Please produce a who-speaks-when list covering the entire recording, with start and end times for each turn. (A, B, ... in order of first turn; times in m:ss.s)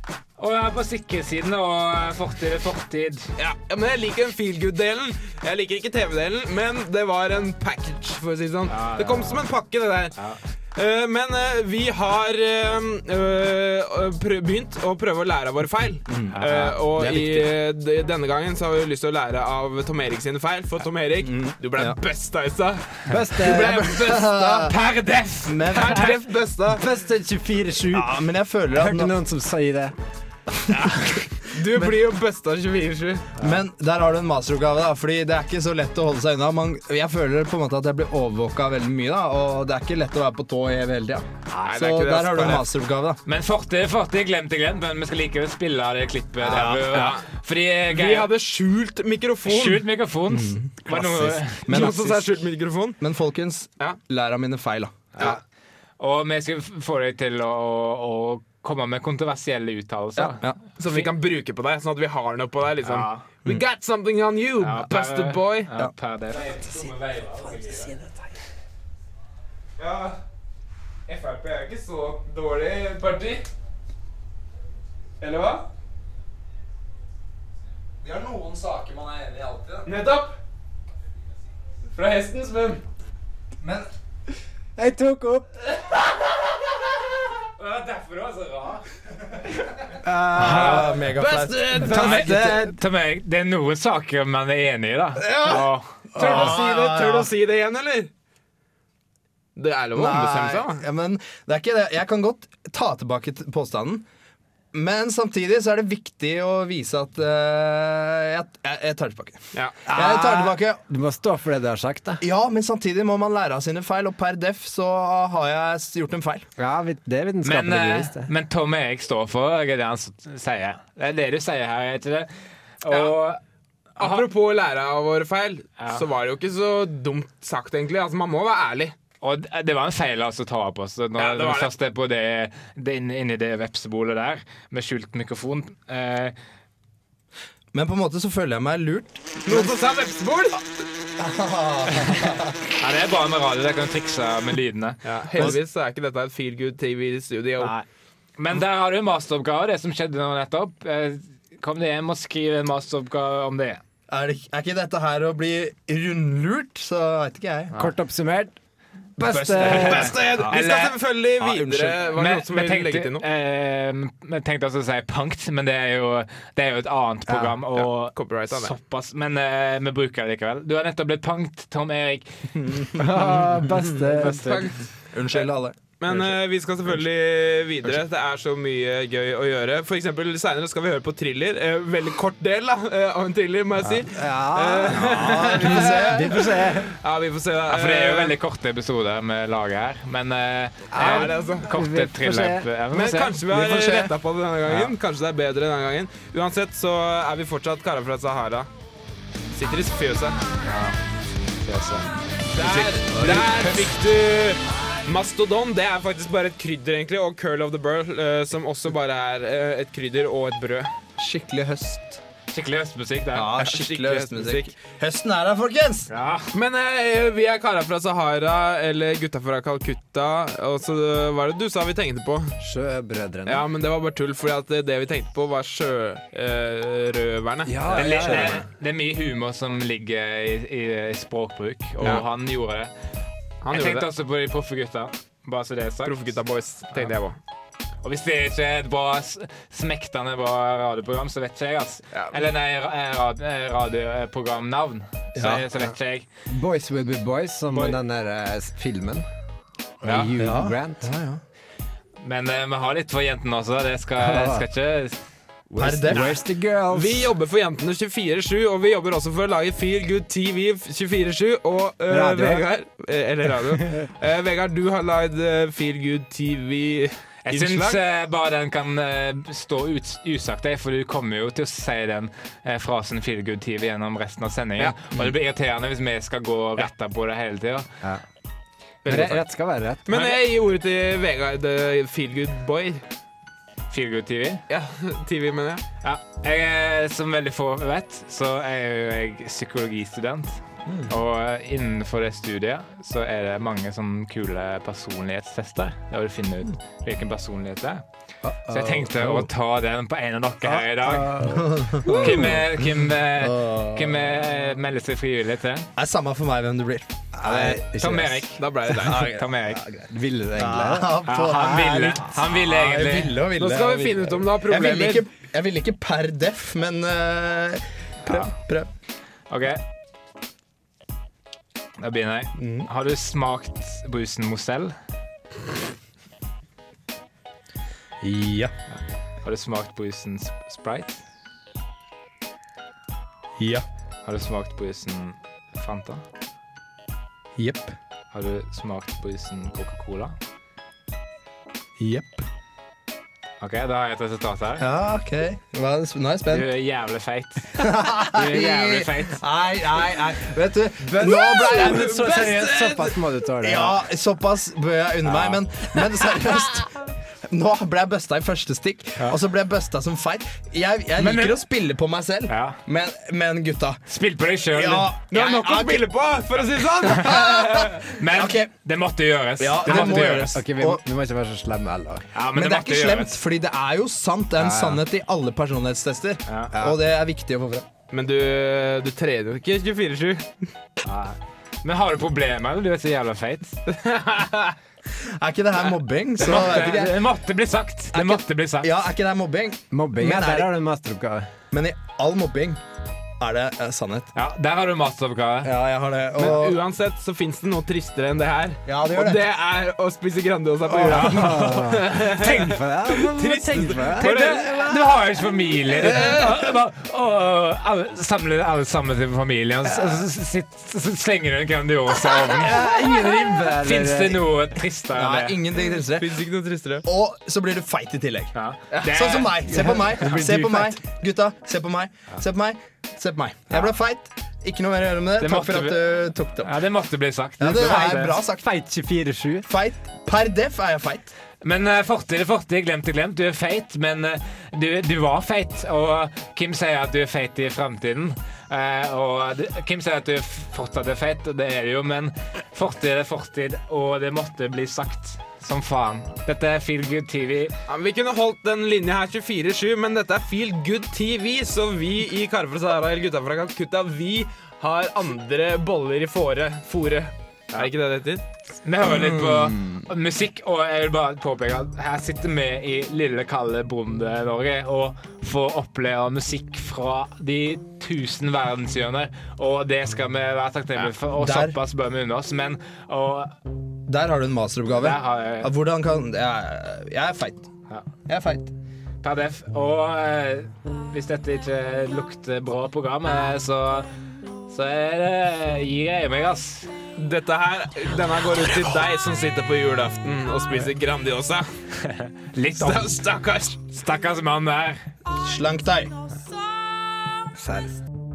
0:00.4-0:03.3 A
0:03.4-0:10.2 B
0:08.7-0:09.5 A
0:10.8-0:24.9 B
0:16.1-0:16.4 C
0:16.3-0:16.8 A
0:17.0-0:17.5 C
0:21.2-0:22.0 C
0:23.1-0:23.9 D
0:23.4-0:24.8 C
0:24.8-0:26.0 A
0:25.4-0:26.5 C
0:25.7-0:26.8 B
0:26.7-0:28.1 D
0:27.9-0:29.1 C
0:28.7-0:30.0 D
0:30.7-0:31.2 D
0:30.7-0:31.3 C
0:31.4-0:33.3 B
0:33.4-0:43.2 C
0:41.5-0:42.7 B
0:43.3-0:48.3 A
0:46.4-0:47.2 C
0:46.5-0:47.3 B
0:47.9-0:49.8 B
0:49.5-0:51.7 A
0:50.3-0:52.4 C
0:51.7-0:53.0 B
0:53.0-0:55.3 C
0:56.0-1:01.1 A
1:00.2-1:00.6 C
1:00.8-1:05.7 B
1:02.8-1:03.2 A
1:04.6-1:08.0 A
1:06.5-1:06.9 D
1:07.4-1:08.3 D
1:09.8-1:10.2 B
1:11.1-1:13.5 B
1:15.2-1:15.7 B
1:18.0-1:19.9 C
1:19.8-1:20.4 B
1:22.0-1:22.8 B
1:23.6-1:23.9 C
1:24.8-1:25.5 D
1:27.6-1:28.8 A
1:30.0-1:30.7 D
1:30.0-1:32.6 C
1:30.3-1:31.0 A
1:31.2-1:32.7 B
1:31.8-1:36.5 A
1:35.2-1:35.6 C
1:35.3-1:35.6 B
1:36.1-1:37.3 C
1:36.2-1:38.1 B
1:39.6-1:40.8 B
1:39.9-1:44.1 C
1:44.7-1:50.8 C
1:49.9-1:52.2 D
1:52.2-1:56.5 C
1:56.6-1:58.3 D
1:57.4-2:02.3 A
2:02.8-2:03.4 A
2:02.9-2:03.1 B
2:04.0-2:09.0 B
2:04.0-2:04.3 A
2:05.8-2:06.0 A
2:09.2-2:16.3 A
2:11.2-2:11.7 B
2:17.7-2:19.8 C
2:19.4-2:20.6 B
2:21.2-2:22.6 C
2:21.9-2:25.0 A
2:25.0-2:27.7 B
2:27.6-2:27.8 A
2:28.4-2:33.8 A
2:34.1-2:37.7 C
2:37.8-2:38.6 D
2:39.2-2:40.2 D
2:39.2-2:40.7 C
2:39.6-2:43.3 B
2:39.7-2:40.9 A
2:41.4-2:42.0 C
2:42.1-2:52.3 A
2:47.3-2:47.6 D
2:47.8-2:48.7 B
2:52.6-2:54.3 C
2:53.0-2:54.6 D
2:54.2-2:55.5 B
2:55.1-2:56.2 C
2:56.0-3:08.4 B
3:03.8-3:06.9 D
3:04.8-3:06.4 C
3:07.7-3:13.4 A
3:10.9-3:12.7 D
3:11.0-3:11.7 B
3:12.9-3:18.7 B
3:13.5-3:14.2 C
3:19.5-3:20.4 B
3:20.7-3:20.9 D
3:21.6-3:22.1 A
3:22.5-3:30.9 B
3:22.6-3:23.9 C
3:31.2-3:32.2 C
3:32.5-3:33.5 A
3:33.3-3:36.1 C
3:33.6-3:34.7 B
3:36.1-3:36.5 A
3:36.5-3:42.5 B
3:42.6-3:43.6 D
3:43.5-3:48.6 B
3:47.6-3:48.6 D
3:47.9-3:52.9 A
3:53.6-3:54.1 B
3:53.7-3:56.3 A
3:56.0-3:57.4 B
3:58.0-4:06.3 A
4:02.1-4:02.4 B
4:05.4-4:05.7 C
4:06.5-4:09.2 D
4:07.7-4:08.0 A
4:10.0-4:11.1 D
4:10.0-4:10.3 A
4:10.4-4:11.4 C
4:12.2-4:15.2 A
4:14.2-4:14.6 D
4:15.7-4:16.4 B
4:15.8-4:16.4 C
4:15.8-4:17.3 D
4:16.9-4:28.0 B
4:22.1-4:22.6 D
4:27.4-4:37.9 A
4:39.0-4:39.5 B
4:39.1-4:40.0 D
4:40.0-4:43.0 B
4:40.1-4:40.4 A
4:43.9-4:44.6 A
4:44.7-4:45.8 B
4:46.0-4:58.0 A
4:50.8-4:51.2 C
4:58.5-4:59.5 D
4:58.7-5:01.4 A
5:00.6-5:02.6 D
5:01.4-5:04.5 C
5:02.0-5:05.9 A
5:06.0-5:07.8 C
5:07.4-5:08.5 D
5:07.8-5:09.8 A
5:08.6-5:09.3 B
5:09.0-5:18.9 C
5:10.1-5:12.2 D
5:11.2-5:13.4 A
5:13.6-5:15.2 B
5:19.5-5:19.8 A
5:22.0-5:24.9 A
5:22.6-5:22.9 C
5:28.2-5:28.7 C
5:28.9-5:31.2 A
5:33.6-5:33.8 C
5:34.2-5:36.2 A
5:37.6-5:38.0 C
5:38.3-5:40.4 A
5:42.0-5:42.4 C
5:43.6-5:44.9 A
5:44.8-5:46.7 C
5:46.5-5:49.4 A
5:47.8-5:52.4 C
5:51.0-5:54.0 D
5:51.2-5:53.2 B
5:53.6-6:04.0 C
6:01.2-6:01.6 A
6:02.5-6:02.8 A
6:04.1-6:05.1 A
6:04.7-6:06.1 C
6:05.3-6:08.0 B
6:07.1-6:08.7 C
6:08.1-6:10.6 A
6:09.6-6:11.0 C
6:09.9-6:12.3 D
6:12.4-6:13.3 A
6:12.5-6:17.9 C
6:14.6-6:15.0 D
6:16.5-6:16.7 A
6:16.7-6:17.0 D
6:18.1-6:20.5 B
6:21.0-6:23.8 A
6:23.9-6:24.8 B
6:25.2-6:27.2 C
6:26.4-6:29.0 A
6:28.1-6:30.7 C
6:29.9-6:31.5 D
6:31.7-6:32.8 C
6:33.4-6:34.3 C
6:34.4-6:35.7 A
6:35.6-6:36.8 C
6:36.4-6:44.8 B
6:38.9-6:39.4 C
6:40.9-6:45.2 D
6:41.1-6:41.3 C
6:41.1-6:41.5 A
6:44.2-6:52.8 A
6:46.0-6:46.3 D
6:46.0-6:46.6 B
6:52.2-6:54.5 D
6:53.8-6:55.6 A
6:55.1-6:56.4 C
6:56.2-6:57.0 B
6:57.0-7:06.8 C
6:58.6-7:00.8 A
6:59.7-7:00.3 D
7:05.4-7:06.1 A
7:06.6-7:08.4 A
7:07.6-7:08.7 C
7:07.8-7:09.7 D
7:09.7-7:11.3 C
7:11.6-7:27.8 A
7:27.9-7:38.4 B
7:38.8-7:53.5 A
7:39.0-7:39.8 C
7:51.4-7:51.8 C
7:54.1-7:57.7 C
7:55.0-7:55.7 A
7:58.3-7:58.7 C
7:59.2-8:04.1 A
8:04.7-8:06.9 A
8:07.2-8:11.7 B
8:12.0-8:13.2 A
8:12.8-8:13.8 B
8:13.9-8:15.0 A
8:15.4-8:16.1 C
8:17.5-8:18.0 D